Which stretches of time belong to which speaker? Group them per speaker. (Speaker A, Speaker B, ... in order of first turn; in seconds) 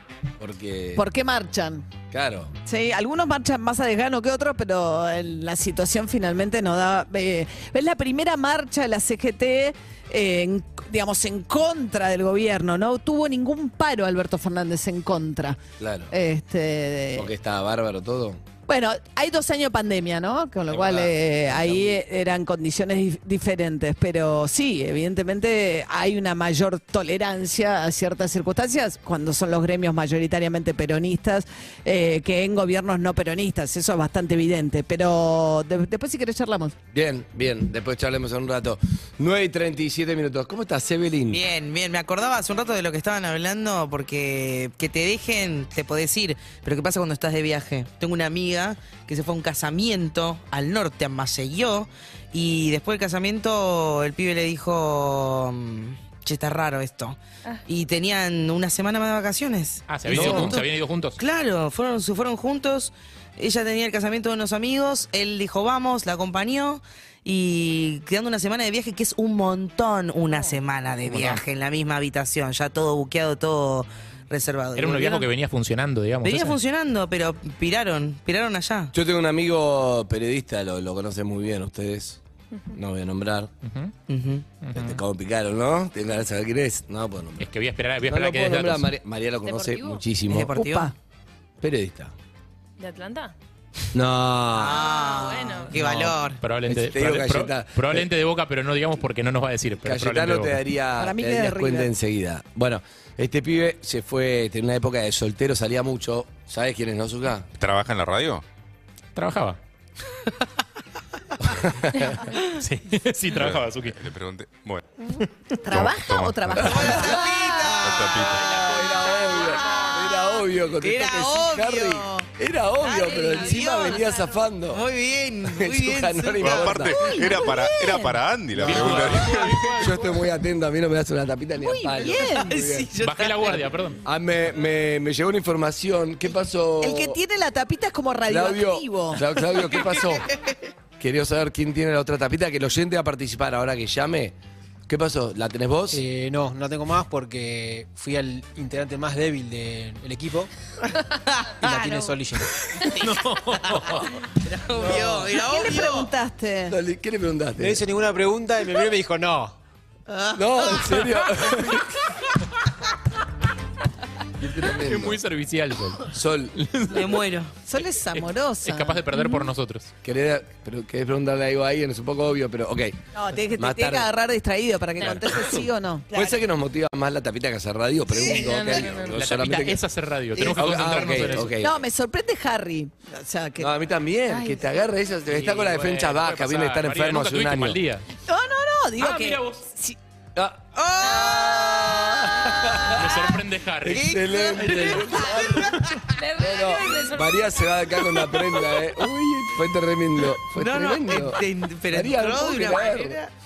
Speaker A: 0.4-1.1, 2.1-2.5, 15.8-16.1, 17.1-18.4, 20.7-22.0, 36.9-41.4, 60.1-60.6, 78.9-82.2, 82.7-83.5, 84.8-87.5, 88.1-90.5, 91.6-92.1, 93.9-94.8, 96.7-98.1, 99.8-107.5, 111.4-112.0, 116.8-117.2, 118.5-124.8, 125.5-127.0, 129.8-132.9, 134.0-137.2, 138.3-140.3, 141.0-144.4, 144.9-146.0, 156.7-157.9, 160.4-162.0, 164.4-165.2, 166.1-166.5, 170.0-173.0, 173.6-174.1, 175.0-179.8, 180.4-181.8, 183.6-187.8, 190.4-190.6, 192.4-193.1, 193.8-203.2
Speaker B: 1.0-1.9, 2.7-15.6, 16.1-17.3, 18.7-36.8, 90.5-90.9, 101.0-101.9, 115.6-117.3, 126.9-128.2, 131.6-132.6, 136.8-139.2, 155.3-156.8, 167.7-169.4, 173.1-176.1, 178.2-178.6, 181.6-183.7, 184.3-184.6, 188.3-190.0
Speaker C: 41.3-75.3, 76.2-78.9, 84.1-84.5, 90.3-90.9, 94.5-96.4, 116.7-118.4, 119.5-120.2, 120.8-122.3, 122.8-126.9, 132.4-133.7, 151.3-156.1, 160.1-161.5, 166.9-167.5, 176.1-176.4, 190.8-193.0, 193.9-195.9, 200.5-203.3
Speaker D: 59.9-61.2, 71.0-71.4, 74.8-76.6, 83.6-83.9, 84.6-85.0, 87.4-88.9, 95.8-100.6, 109.2-109.6, 112.3-114.0, 118.3-119.8, 128.6-130.2, 133.0-134.0, 153.1-153.8, 164.8-167.2, 168.1-169.9, 179.1-181.6, 185.3-188.1, 189.0-189.6, 192.8-195.3
Speaker E: 89.5-90.0, 92.8-93.3, 94.7-95.8, 123.0-124.2, 178.2-179.2, 196.2-198.3
Speaker F: 107.6-108.4, 113.3-114.8, 115.7-117.1, 117.8-118.4, 126.4-129.7
Speaker G: 145.9-150.5, 151.6-153.9, 157.6-159.6